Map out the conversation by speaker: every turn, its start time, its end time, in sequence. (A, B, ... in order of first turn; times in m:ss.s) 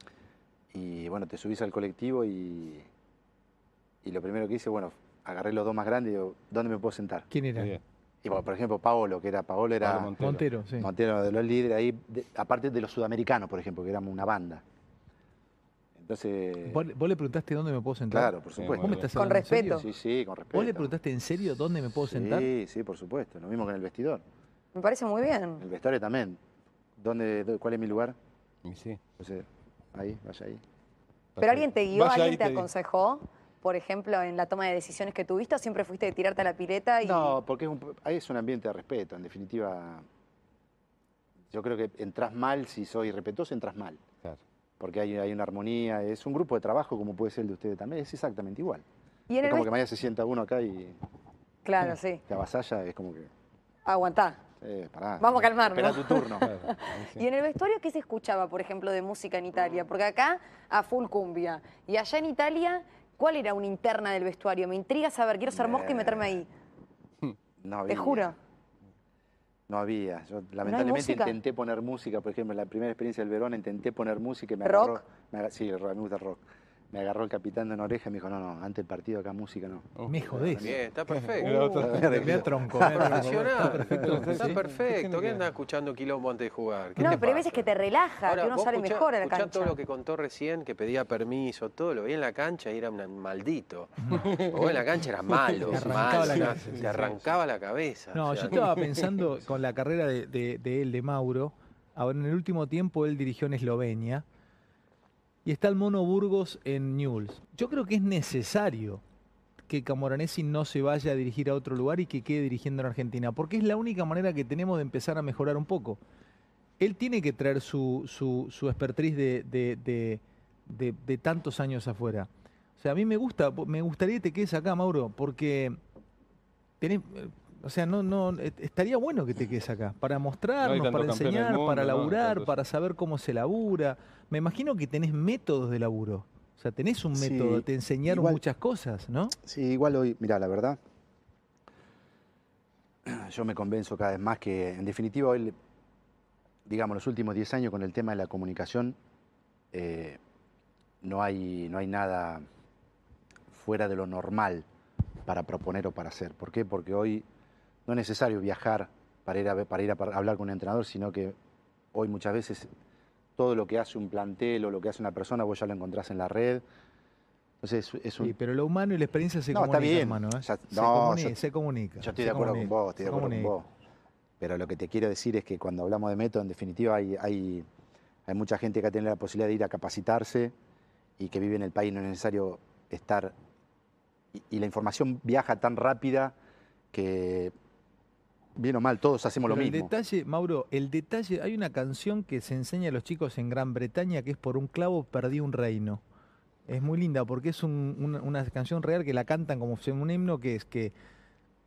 0:00.7-0:02.9 A
0:04.0-0:07.3 A
0:07.3-0:07.8 B
0:08.2-0:10.1 A
0:09.8-0:10.4 C
0:10.2-0:10.9 B
0:10.8-0:14.6 A
0:16.0-0:16.8 A
0:16.6-0:19.8 B
0:18.1-0:20.9 A
0:18.6-0:19.0 C
0:19.1-0:19.9 D
0:20.5-0:22.5 B
0:22.0-0:24.2 A
0:24.7-0:25.6 D
0:25.6-0:26.4 A
0:27.0-0:28.2 A
0:28.6-0:29.0 C
0:29.2-0:30.6 A
0:31.4-0:32.7 C
0:31.4-0:37.3 D
0:37.0-0:40.0 A
0:41.5-0:44.0 A
0:44.8-0:48.8 A
0:49.3-0:49.7 D
0:49.4-0:51.0 A
0:51.6-0:52.2 D
0:52.3-0:53.3 A
0:53.8-0:54.4 D
0:54.6-0:56.5 A
0:55.2-1:06.5 D
0:56.4-0:57.2 C
1:05.5-1:06.4 A
1:07.6-1:08.3 A
1:07.9-1:08.4 D
1:09.7-1:20.8 A
1:10.6-1:11.4 D
1:14.6-1:15.0 D
1:20.0-1:20.2 C
1:20.1-1:20.8 B
1:20.5-1:22.0 E
1:21.1-1:22.4 C
1:21.8-1:23.2 A
1:21.9-1:24.6 B
1:22.8-1:27.7 E
1:23.6-1:25.4 C
1:27.0-1:29.8 D
1:28.2-1:39.0 E
1:34.1-1:37.1 C
1:35.7-1:36.9 B
1:38.1-1:44.2 B
1:45.4-1:49.0 B
1:49.7-1:56.0 B
1:56.8-2:05.8 B
2:06.8-2:19.4 B
2:10.6-2:12.5 C
2:17.1-2:18.4 A
2:19.4-2:20.8 A
2:23.0-2:25.5 A
2:26.6-2:29.0 A
2:29.7-2:30.2 A
2:31.0-2:32.4 A
2:33.5-2:34.6 A
2:35.2-2:37.2 A
2:37.8-2:41.4 A
2:41.9-2:42.7 A
2:43.4-2:46.6 A
2:47.6-2:48.3 A
2:48.2-2:53.5 B
2:49.5-2:51.4 A
2:52.0-2:53.7 A
2:54.4-2:57.6 A
2:58.2-3:00.5 A
3:01.2-3:03.3 A
3:04.3-3:06.3 A
3:06.9-3:07.5 A
3:08.6-3:09.9 A
3:09.4-3:16.0 B
3:16.7-3:20.9 B